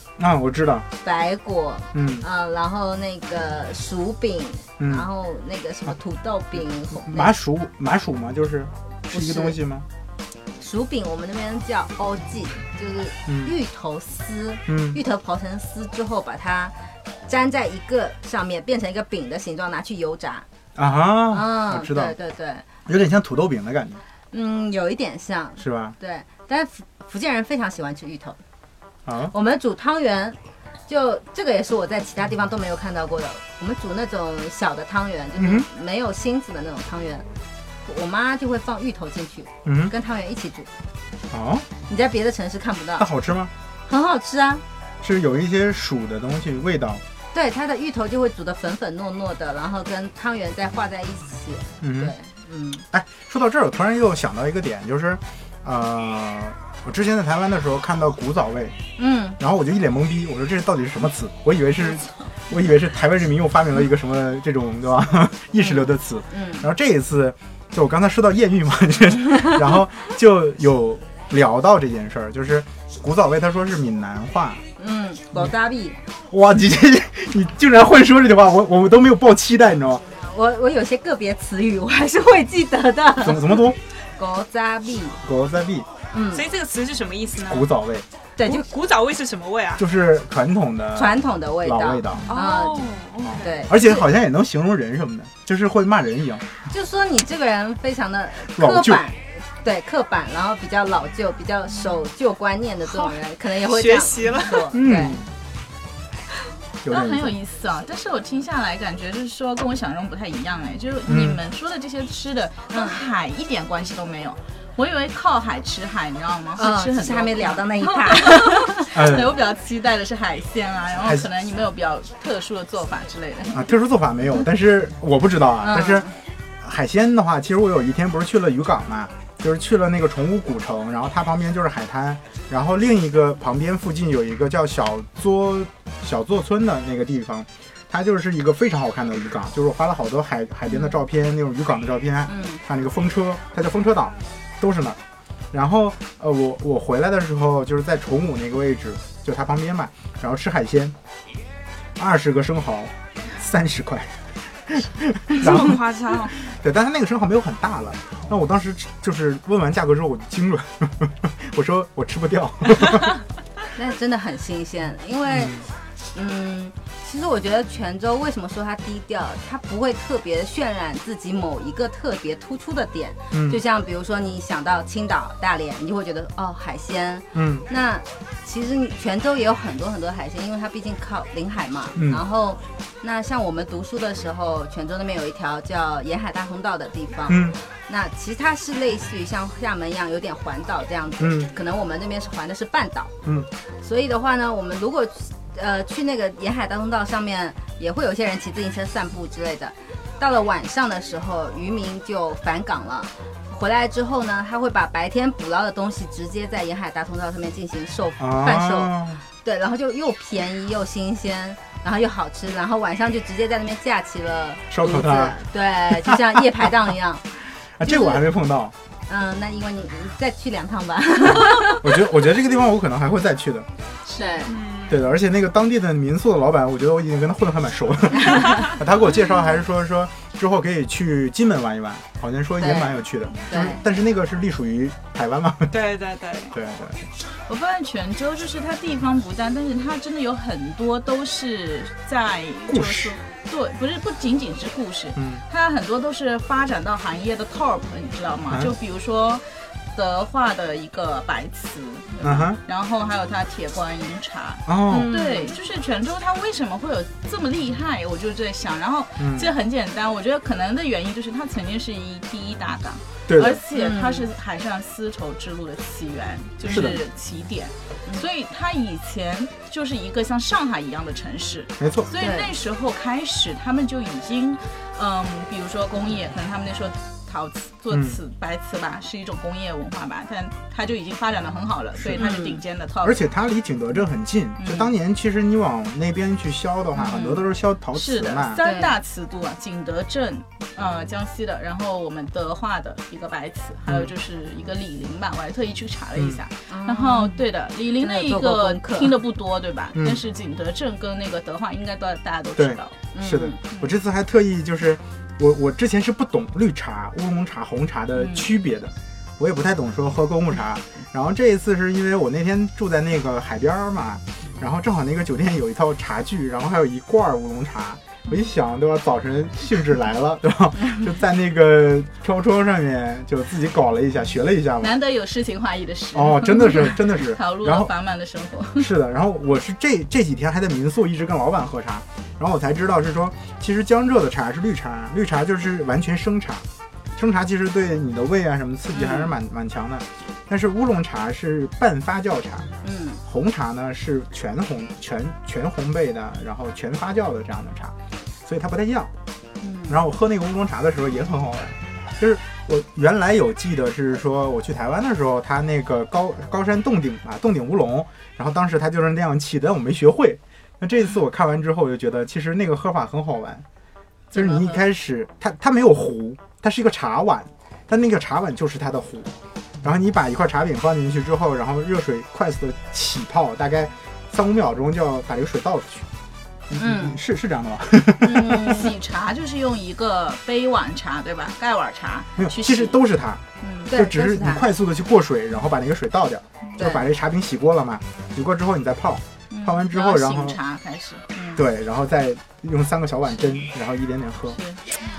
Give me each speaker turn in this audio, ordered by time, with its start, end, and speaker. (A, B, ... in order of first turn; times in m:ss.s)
0:00.2-0:00.9 A
0:01.0-0:07.4 B
0:01.9-0:02.2 A
0:04.8-0:05.1 A
0:07.0-0:09.8 A
0:09.1-0:09.6 B
0:10.6-0:20.4 B
0:13.3-0:13.5 A
0:14.7-0:15.0 A
0:20.8-0:22.2 A
0:21.3-0:22.6 B
0:22.8-0:24.0 A
0:24.3-0:28.4 B
0:25.6-0:25.9 A
0:29.0-0:29.3 A
0:29.3-0:37.2 B
0:35.4-0:35.7 A
0:37.8-0:40.7 B
0:39.6-0:39.9 A
0:41.3-0:41.7 A
0:41.9-0:43.1 B
0:43.0-0:43.5 A
0:43.9-0:44.6 B
0:45.0-0:47.0 A
0:47.3-0:52.8 B
0:51.8-0:52.1 A
0:52.9-0:58.8 A
0:59.0-0:59.4 B
0:59.4-1:14.6 A
1:05.6-1:06.6 B
1:14.8-1:16.0 B
1:16.3-1:20.0 A
1:20.2-1:25.2 B
1:23.2-1:23.8 A
1:25.2-1:25.9 A
1:26.1-1:26.4 B
1:26.3-1:27.7 C
1:27.5-1:28.0 A
1:28.4-1:28.7 B
1:28.4-1:29.8 C
1:29.8-1:32.3 A
1:30.9-1:34.1 B
1:32.2-1:33.6 C
1:33.2-1:36.5 A
1:36.7-1:45.2 B
1:38.5-1:39.0 A
1:43.0-1:44.7 C
1:44.7-1:45.2 A
1:46.8-1:47.3 A
1:46.9-2:03.7 D
1:51.0-1:51.4 A
1:52.7-1:53.0 B
1:56.6-1:58.9 B
1:58.9-1:59.4 A
2:01.0-2:01.3 A
2:03.5-2:06.1 A
2:05.6-2:06.2 B
2:06.6-2:25.0 A
2:22.3-2:22.6 B
2:25.5-2:30.9 A
2:32.0-2:35.8 A
2:35.4-2:36.4 C
2:36.4-2:43.1 A
2:43.7-3:13.1 B
2:45.3-2:45.6 A
2:53.3-2:53.6 A
2:57.3-2:57.6 A
3:02.0-3:02.2 A
3:07.3-3:07.6 A
3:11.2-3:11.5 A
3:13.8-3:37.3 B
3:28.2-3:29.2 A
3:34.7-3:35.4 A
3:35.9-3:36.7 A
3:37.6-3:38.7 A
3:37.8-3:38.2 B
3:39.1-3:42.0 B
3:41.3-3:43.7 A
3:44.1-3:44.3 D
3:44.2-3:44.6 B
3:44.4-3:45.0 C
3:44.9-3:55.7 A
3:52.6-3:53.8 B
3:55.7-3:56.5 C
3:56.5-3:57.1 A
3:57.4-4:43.3 D
4:02.7-4:03.2 A
4:05.2-4:05.4 A
4:08.5-4:08.7 A
4:12.2-4:12.6 A
4:14.7-4:15.1 A
4:14.9-4:15.6 B
4:19.2-4:19.5 A
4:23.3-4:23.6 A
4:23.7-4:24.3 B
4:26.6-4:27.0 A
4:31.8-4:32.1 A
4:32.2-4:32.5 B
4:37.9-4:38.2 A
4:42.0-4:42.3 A
4:42.2-4:42.6 B
4:43.0-4:48.6 A
4:44.6-4:44.9 D
4:47.0-4:47.4 B
4:47.9-5:02.9 D
4:48.6-4:48.9 B
4:53.8-4:54.1 A
4:56.2-4:56.4 A
4:56.7-4:57.4 B
4:58.0-4:59.2 B
4:59.9-5:00.2 A
5:02.6-5:25.0 A
5:03.1-5:03.6 B
5:24.8-5:28.9 D
5:26.1-5:27.9 A
5:28.8-5:36.6 A
5:37.2-5:42.7 A
5:38.9-5:39.3 B
5:42.8-5:43.2 B
5:43.2-5:47.9 A
5:48.4-5:49.1 A
5:49.6-5:50.0 B
5:49.9-6:03.6 A
6:04.3-6:16.0 A
6:04.4-6:04.7 D
6:16.7-6:18.7 A
6:16.8-6:17.2 B
6:18.2-6:18.9 B
6:18.6-6:23.0 D
6:22.4-6:30.6 A
6:23.6-6:24.6 B
6:26.8-6:27.0 B
6:29.5-6:31.3 D
6:31.3-6:31.6 B
6:31.5-6:34.6 A
6:34.5-6:34.8 D